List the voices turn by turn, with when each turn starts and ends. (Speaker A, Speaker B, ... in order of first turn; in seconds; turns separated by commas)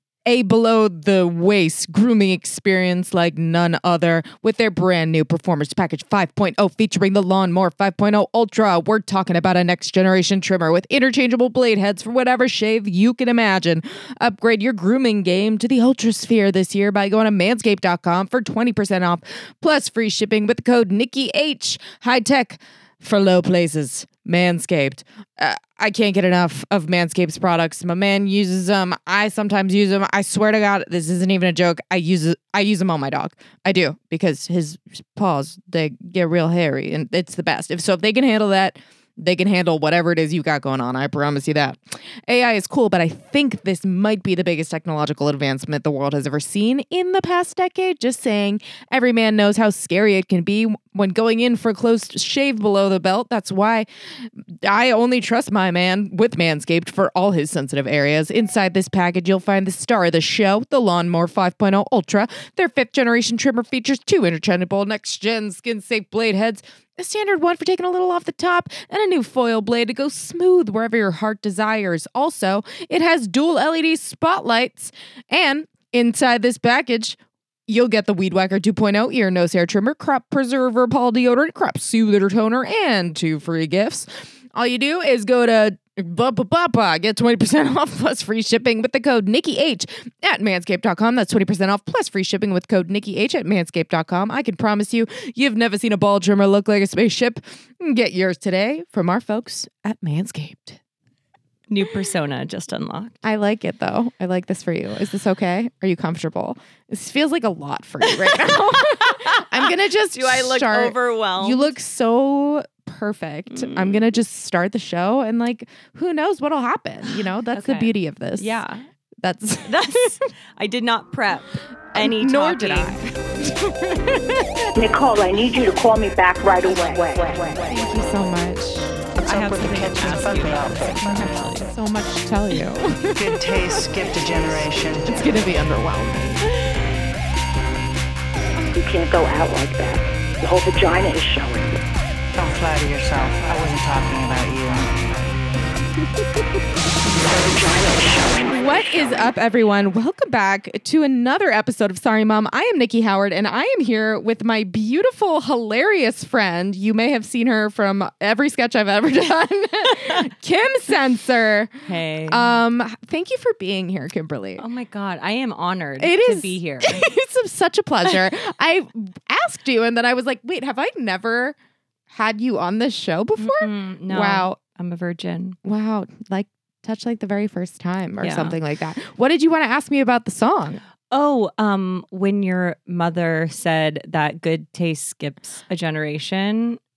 Speaker A: 0.2-53.9, Speaker A: 54.6-100.8, Speaker B: 101.7-103.2, Speaker A: 103.2-118.6, Speaker B: 108.0-111.7, Speaker B: 113.5-114.0, Speaker B: 117.1-118.8, Speaker A: 119.2-120.2, Speaker B: 119.6-123.0, Speaker A: 121.9-124.7, Speaker C: 124.7-127.8, Speaker A: 127.7-129.0, Speaker D: 129.2-131.7, Speaker B: 129.2-131.7, Speaker A: 131.0-136.5, Speaker D: 133.1-135.3, Speaker C: 138.7-141.8, Speaker D: 142.3-145.5, Speaker C: 147.2-148.8, Speaker A: 148.5-164.6, Speaker B: 161.8-162.5, Speaker B: 164.6-167.1, Speaker A: 166.0-171.6, Speaker A: 172.1-174.6, Speaker B: 173.4-175.6, Speaker A: 175.6-180.8, Speaker B: 178.2-178.6, Speaker B: 181.1-186.8